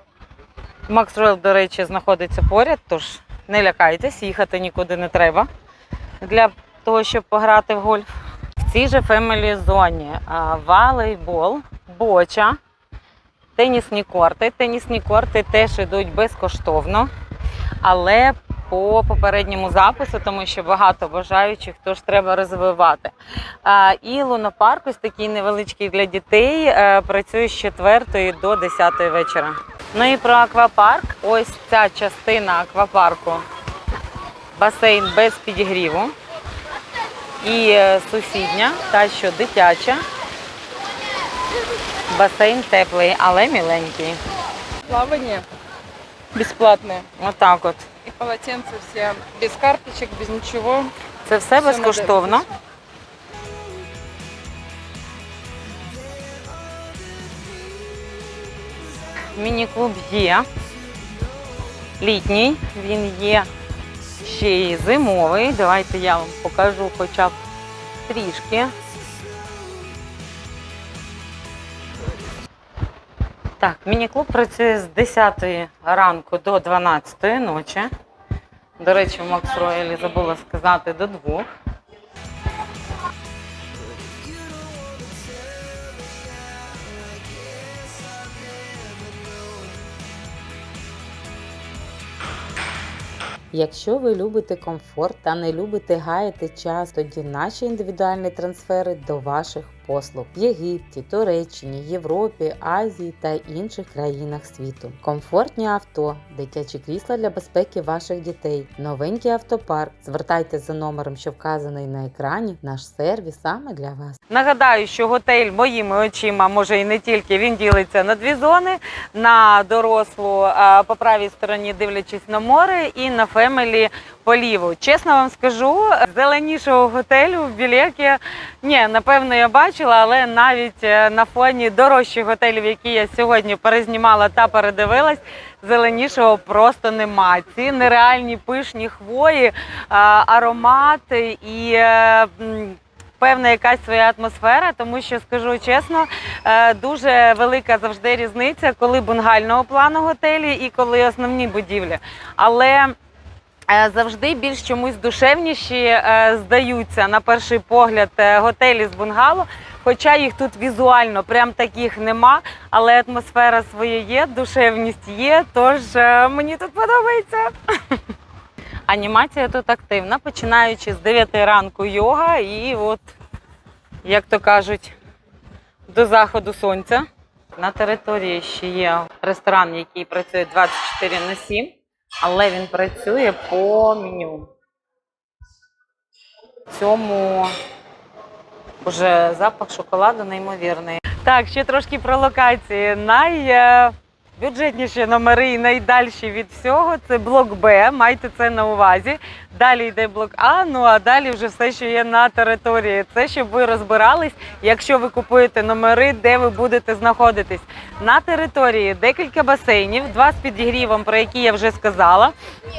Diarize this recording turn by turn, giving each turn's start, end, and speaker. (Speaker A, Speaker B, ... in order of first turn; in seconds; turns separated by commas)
Speaker A: 0.9-5.5, Speaker A: 6.2-12.6, Speaker A: 13.6-17.1, Speaker A: 17.8-33.4, Speaker A: 34.6-36.1, Speaker A: 37.4-40.0, Speaker A: 42.1-44.2, Speaker B: 44.9-45.5, Speaker B: 46.3-47.1, Speaker A: 47.2-47.9, Speaker B: 48.1-50.9, Speaker A: 51.3-52.5, Speaker B: 51.6-52.4, Speaker A: 59.4-60.5, Speaker A: 62.0-63.5, Speaker A: 64.2-67.4, Speaker A: 68.1-68.7, Speaker A: 73.6-77.9, Speaker A: 78.8-81.5, Speaker C: 87.8-88.1, Speaker C: 93.5-114.2, Speaker A: 94.7-95.2, Speaker A: 114.3-152.9, Speaker A: 153.7-168.0, Speaker A: 168.9-173.1, Speaker A: 174.0-175.0, Speaker A: 175.9-177.1, Speaker A: 177.6-184.5, Speaker A: 186.7-187.5, Speaker A: 188.8-212.3